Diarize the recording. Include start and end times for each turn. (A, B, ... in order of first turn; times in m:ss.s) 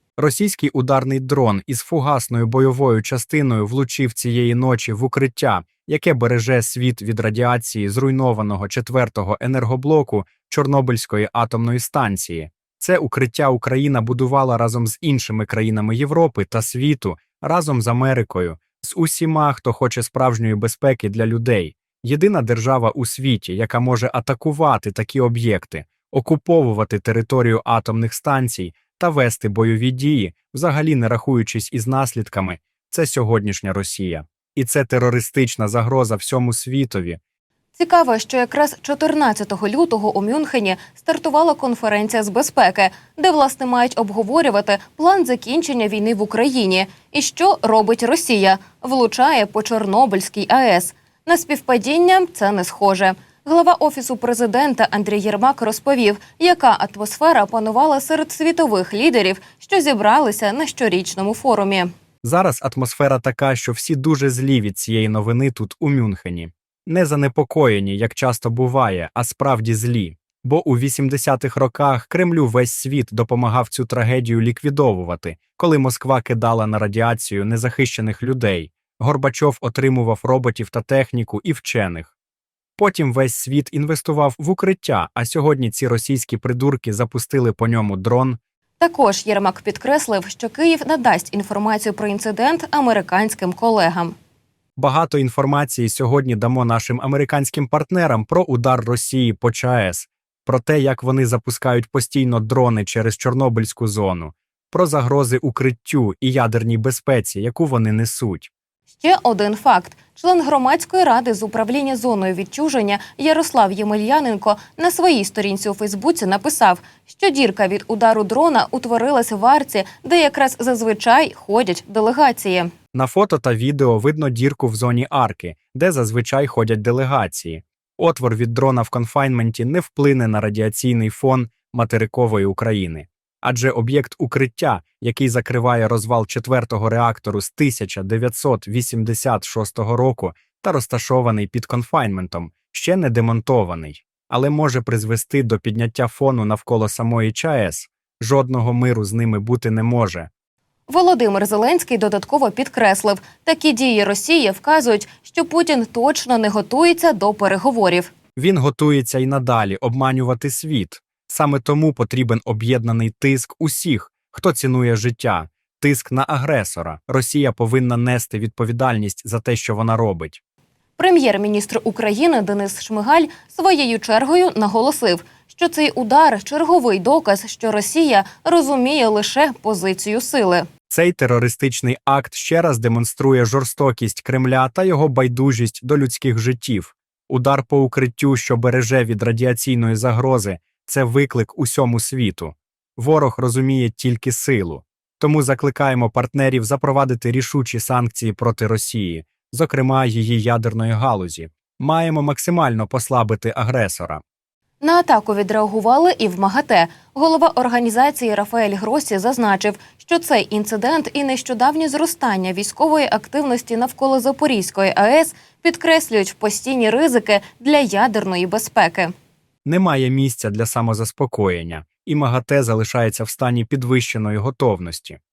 0:00.2-0:37.2 A
0:37.8-1:01.9 B
1:02.2-1:22.1 A
1:22.8-1:28.4 A
1:28.8-1:34.1 B
1:34.8-1:48.5 A
1:48.9-2:02.7 B
2:02.9-2:30.3 A
2:30.9-2:38.1 B
2:38.4-2:50.4 A
2:51.0-3:00.7 B
3:00.9-3:24.2 A
3:24.8-3:39.1 B
3:39.6-3:45.2 A